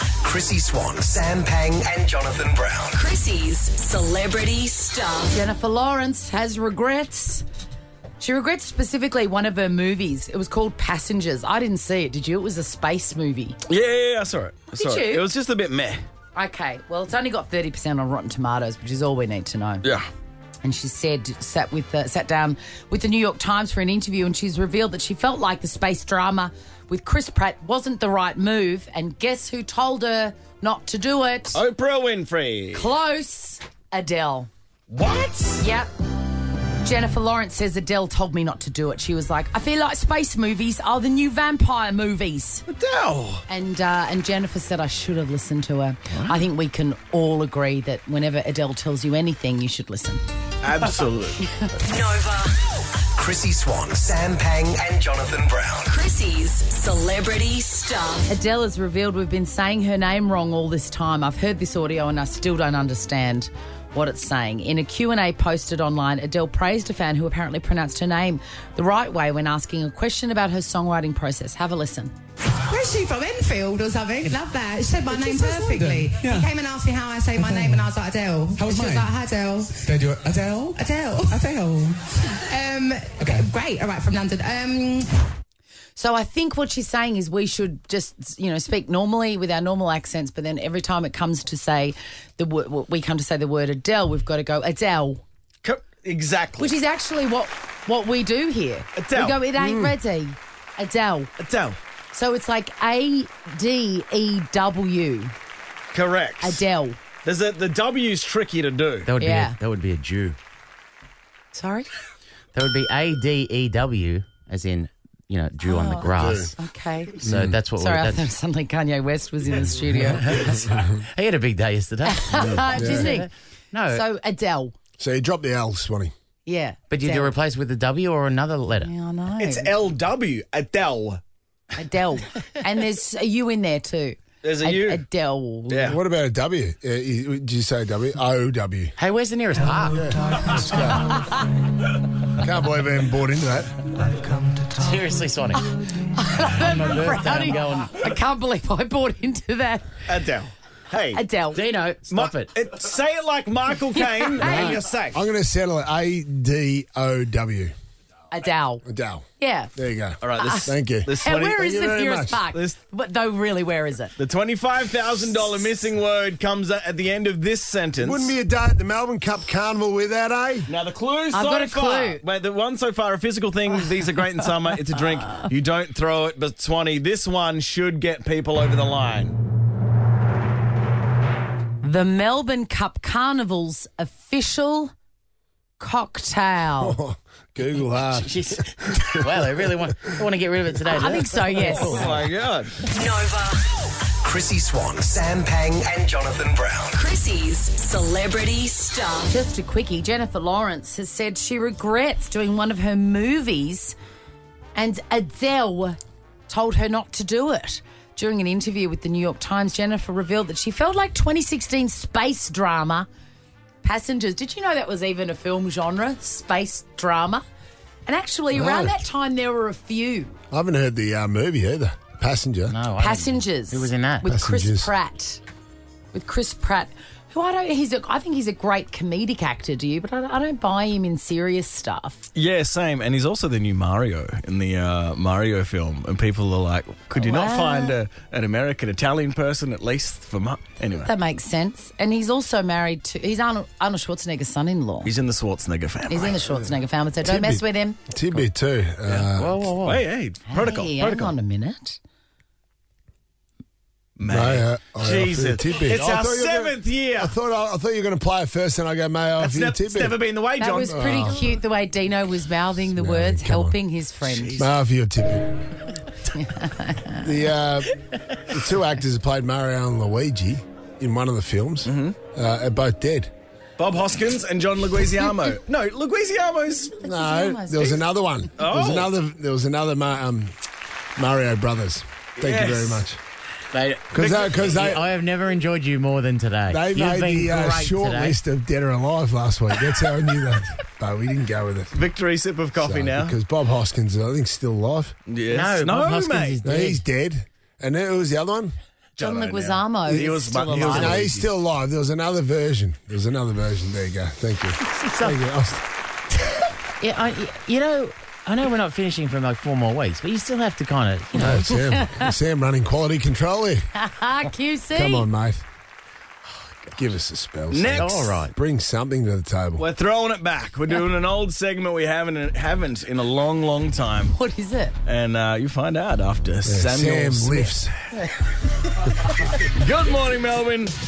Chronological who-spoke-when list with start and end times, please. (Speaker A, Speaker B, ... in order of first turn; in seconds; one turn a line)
Speaker A: 0.2-3.0
Speaker B: 2.9-5.4
Speaker C: 5.3-7.5
Speaker C: 8.2-13.6
Speaker D: 13.7-16.0
Speaker C: 14.8-15.3
Speaker C: 16.4-19.8
Speaker C: 20.6-31.6
Speaker D: 31.5-32.9
Speaker C: 32.7-34.5
Speaker D: 34.9-35.6
Speaker C: 35.6-35.9
Speaker C: 36.8-42.6
Speaker D: 42.7-43.5
Speaker C: 43.5-50.2
Speaker D: 50.6-51.4
Speaker B: 51.8-53.0
Speaker A: 53.1-55.9
Speaker B: 55.9-58.3
Speaker C: 58.3-72.1
Speaker E: 72.7-80.0
Speaker F: 75.3-76.5
Speaker F: 77.5-77.9
Speaker F: 78.6-79.1
Speaker F: 79.8-80.8
Speaker E: 80.7-85.1
Speaker C: 86.0-95.2
Speaker D: 95.6-96.7
Speaker C: 96.6-101.3
Speaker D: 99.0-99.4
Speaker G: 99.6-99.9
Speaker D: 101.4-101.8
Speaker C: 102.1-105.3
Speaker D: 105.9-106.6
Speaker C: 106.4-107.0
Speaker D: 107.2-109.1
Speaker H: 109.0-110.4
Speaker C: 109.2-109.6
Speaker C: 111.5-111.9
Speaker H: 112.5-116.5
Speaker C: 115.7-117.2
Speaker G: 116.2-116.5
Speaker G: 117.2-117.6
Speaker H: 117.2-118.2
Speaker C: 117.8-120.8
Speaker G: 120.7-120.9
Speaker H: 121.1-124.0
Speaker C: 122.0-123.3
Speaker G: 122.5-123.2
Speaker C: 123.9-124.8
Speaker G: 125.0-126.1
Speaker C: 126.5-127.3
Speaker H: 126.9-128.9
Speaker C: 128.8-129.8
Speaker D: 129.4-131.2
Speaker C: 131.8-136.0
Speaker D: 134.4-135.0
Speaker D: 135.7-136.0
Speaker G: 135.9-138.9
Speaker H: 139.0-140.1
Speaker G: 139.9-141.2
Speaker G: 142.3-143.7
Speaker H: 144.7-145.7
Speaker C: 145.6-150.0
Speaker H: 146.5-147.9
Speaker D: 150.1-151.2
Speaker C: 151.1-151.6
Speaker H: 151.5-152.5
Speaker D: 152.1-155.2
Speaker C: 154.0-154.8
Speaker G: 154.4-157.7
Speaker C: 158.3-158.8
Speaker G: 158.8-162.4
Speaker C: 159.4-159.7
Speaker D: 160.2-161.9
Speaker C: 160.4-164.2
Speaker D: 162.5-162.8
Speaker D: 164.2-168.3
Speaker G: 168.0-170.7
Speaker D: 170.7-179.4
Speaker C: 171.3-172.2
Speaker C: 181.8-184.9
Speaker C: 185.8-187.0
Speaker G: 186.8-189.5
Speaker H: 188.1-192.2
Speaker C: 190.9-192.1
Speaker D: 191.7-192.8
Speaker B: 192.9-194.0
Speaker A: 194.2-197.0
Speaker B: 196.9-199.3
Speaker C: 199.3-204.0
Speaker C: 204.8-213.1
Speaker C: 213.8-217.4
Speaker C: 218.1-220.3
Speaker G: 218.5-219.0
Speaker G: 220.5-222.8
Speaker H: 222.7-224.3
Speaker C: 223.0-225.4
Speaker G: 224.2-224.9
Speaker C: 226.1-232.2
Speaker D: 232.3-241.1
Speaker C: 237.2-238.0
Speaker C: 241.1-245.1
Speaker D: 245.0-246.5
Speaker C: 246.1-248.0
Speaker G: 247.2-249.7
Speaker D: 249.1-251.3
Speaker H: 249.4-250.0
Speaker C: 250.5-252.0
Speaker D: 254.2-257.3
Speaker G: 254.3-260.2
Speaker D: 259.4-261.4
Speaker C: 260.6-264.7
Speaker G: 260.8-261.4
Speaker G: 262.9-263.8
Speaker D: 264.2-264.7
Speaker G: 264.6-265.5
Speaker C: 266.3-267.3
Speaker G: 267.2-273.3
Speaker D: 271.9-272.2
Speaker D: 273.8-277.0
Speaker G: 277.0-280.6
Speaker C: 277.0-278.1
Speaker D: 278.6-279.1
Speaker G: 281.2-283.2
Speaker D: 282.4-283.1
Speaker H: 283.7-288.4
Speaker G: 284.1-285.1
Speaker G: 286.7-292.0
Speaker D: 291.9-293.4
Speaker G: 292.8-295.1
Speaker D: 295.3-296.6
Speaker H: 295.5-297.0
Speaker G: 296.6-298.7
Speaker D: 299.2-301.5
Speaker C: 299.2-300.9
Speaker H: 300.6-301.0
Speaker G: 300.7-305.8
Speaker H: 304.9-305.4
Speaker H: 307.0-311.7
Speaker G: 311.4-313.8
Speaker C: 311.7-312.3
Speaker C: 314.0-315.3
Speaker G: 314.9-315.6
Speaker G: 316.9-319.9
Speaker D: 317.7-318.3
Speaker H: 317.9-318.5
Speaker D: 319.8-324.3
Speaker C: 324.3-324.9
Speaker D: 325.1-327.8
Speaker G: 326.6-328.1
Speaker D: 329.6-330.9